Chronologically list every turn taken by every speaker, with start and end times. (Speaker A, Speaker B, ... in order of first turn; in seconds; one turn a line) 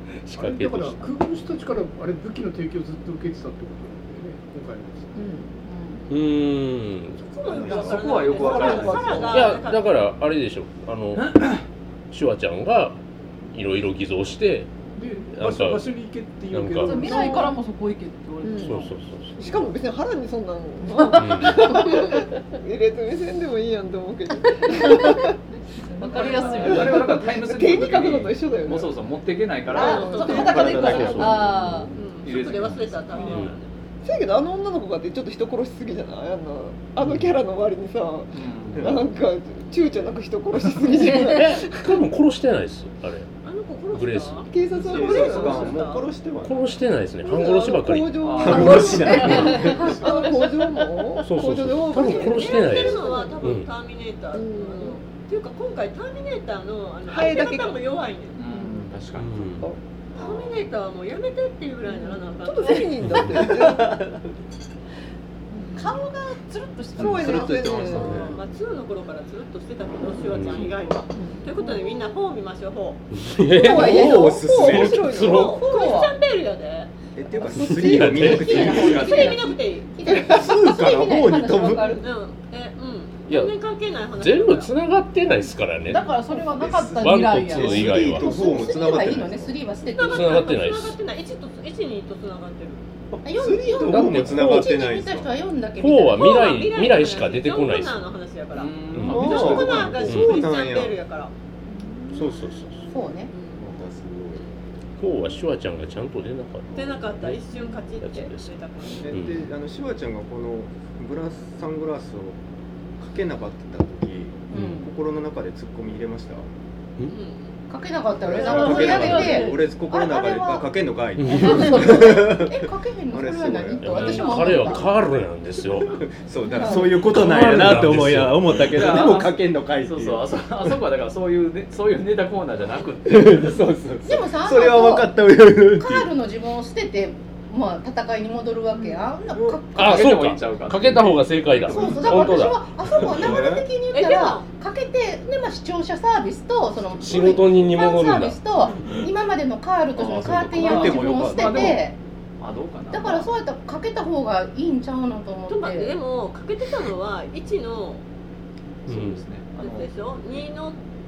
Speaker A: 0.2-1.1
Speaker B: 0.3-5.2
Speaker C: 5.1-5.6
Speaker D: 5.6-6.0
Speaker A: 6.1-7.2
Speaker E: 7.2-9.9
Speaker F: 7.5-8.0
Speaker G: 7.6-9.5
Speaker C: 7.8-9.6
Speaker A: 9.3-11.4
Speaker G: 11.2-11.6
Speaker A: 12.1-13.0
Speaker A: 13.5-14.7
Speaker B: 14.9-17.5
Speaker A: 15.3-15.9
Speaker A: 16.5-17.1
Speaker D: 16.8-18.9
Speaker C: 17.0-17.5
Speaker C: 18.4-25.4
Speaker A: 18.6-19.7
Speaker D: 21.0-22.0
Speaker A: 21.1-21.9
Speaker D: 24.6-25.2
Speaker D: 25.9-27.1
Speaker G: 26.0-33.5
Speaker E: 26.0-26.7
Speaker C: 26.2-29.0
Speaker C: 29.7-31.2
Speaker E: 29.7-31.3
Speaker D: 29.8-31.9
Speaker F: 30.4-31.8
Speaker A: 30.8-31.6
Speaker E: 31.9-33.8
Speaker A: 33.2-33.5
Speaker C: 34.0-42.0
Speaker G: 37.0-37.3
Speaker G: 38.3-39.1
Speaker A: 40.9-43.3
Speaker E: 43.4-46.1
Speaker A: 43.9-44.4
Speaker C: 44.5-45.6
Speaker G: 44.7-45.8
Speaker F: 44.8-46.6
Speaker A: 46.4-48.5
Speaker C: 47.2-53.4
Speaker G: 48.2-49.4
Speaker F: 48.4-50.0
Speaker A: 51.2-53.7
Speaker E: 52.0-58.4
Speaker C: 54.3-55.0
Speaker C: 57.1-57.8
Speaker G: 58.3-59.5
Speaker C: 58.5-58.9
Speaker A: 59.1-59.6
Speaker E: 60.1-62.9
Speaker C: 61.9-64.0
Speaker F: 63.2-64.3
Speaker C: 65.6-65.9
Speaker D: 65.7-68.4
Speaker C: 66.9-68.3
Speaker F: 67.0-68.3
Speaker E: 68.2-73.0
Speaker A: 70.3-70.7
Speaker C: 71.1-71.9
Speaker A: 73.1-75.6
Speaker C: 73.5-75.7
Speaker F: 73.7-75.2
Speaker E: 75.3-76.9
Speaker D: 75.6-76.1
Speaker F: 77.1-79.5
Speaker C: 77.5-78.9
Speaker A: 77.5-78.7
Speaker D: 78.2-79.3
Speaker E: 78.4-79.9
Speaker H: 78.6-81.8
Speaker F: 80.0-82.0
Speaker D: 81.1-82.1
Speaker E: 82.0-84.7
Speaker A: 83.3-83.5
Speaker A: 84.1-86.1
Speaker D: 85.9-88.0
Speaker F: 86.5-89.6
Speaker A: 86.9-88.2
Speaker H: 88.1-90.5
Speaker E: 89.9-92.8
Speaker A: 90.1-91.0
Speaker F: 93.1-95.3
Speaker H: 93.2-96.5
Speaker A: 93.8-94.7
Speaker A: 95.8-98.0
Speaker E: 96.1-101.3
Speaker G: 98.5-100.1
Speaker A: 98.9-100.3
Speaker F: 99.0-101.0
Speaker A: 102.1-102.9
Speaker H: 102.9-103.3
Speaker E: 103.3-103.7
Speaker F: 103.6-104.5
Speaker A: 105.0-107.4
Speaker E: 106.7-109.1
Speaker A: 108.0-108.5
Speaker F: 109.0-112.4
Speaker A: 109.1-109.4
Speaker F: 113.0-116.5
Speaker A: 114.5-114.8
Speaker D: 114.5-114.9
Speaker E: 117.1-117.5
Speaker H: 117.7-120.6
Speaker F: 118.2-124.8
Speaker D: 118.3-120.3
Speaker A: 121.2-121.7
Speaker H: 121.3-124.9
Speaker D: 121.4-121.8
Speaker A: 123.8-126.0
Speaker D: 123.9-124.7
Speaker F: 125.8-130.7
Speaker C: 126.5-126.9
Speaker A: 126.9-129.1
Speaker G: 128.7-133.6
Speaker F: 133.1-136.1
Speaker H: 134.0-140.2
Speaker F: 139.3-139.6
Speaker G: 139.7-141.2
Speaker A: 139.8-142.6
Speaker F: 141.6-143.7
Speaker H: 141.7-151.9
Speaker E: 143.9-144.4
Speaker A: 147.0-148.8
Speaker F: 150.0-151.8
Speaker G: 150.6-153.3
Speaker H: 152.9-156.0
Speaker E: 155.5-158.0
Speaker A: 158.9-159.2
Speaker G: 158.9-160.5
Speaker E: 159.6-160.8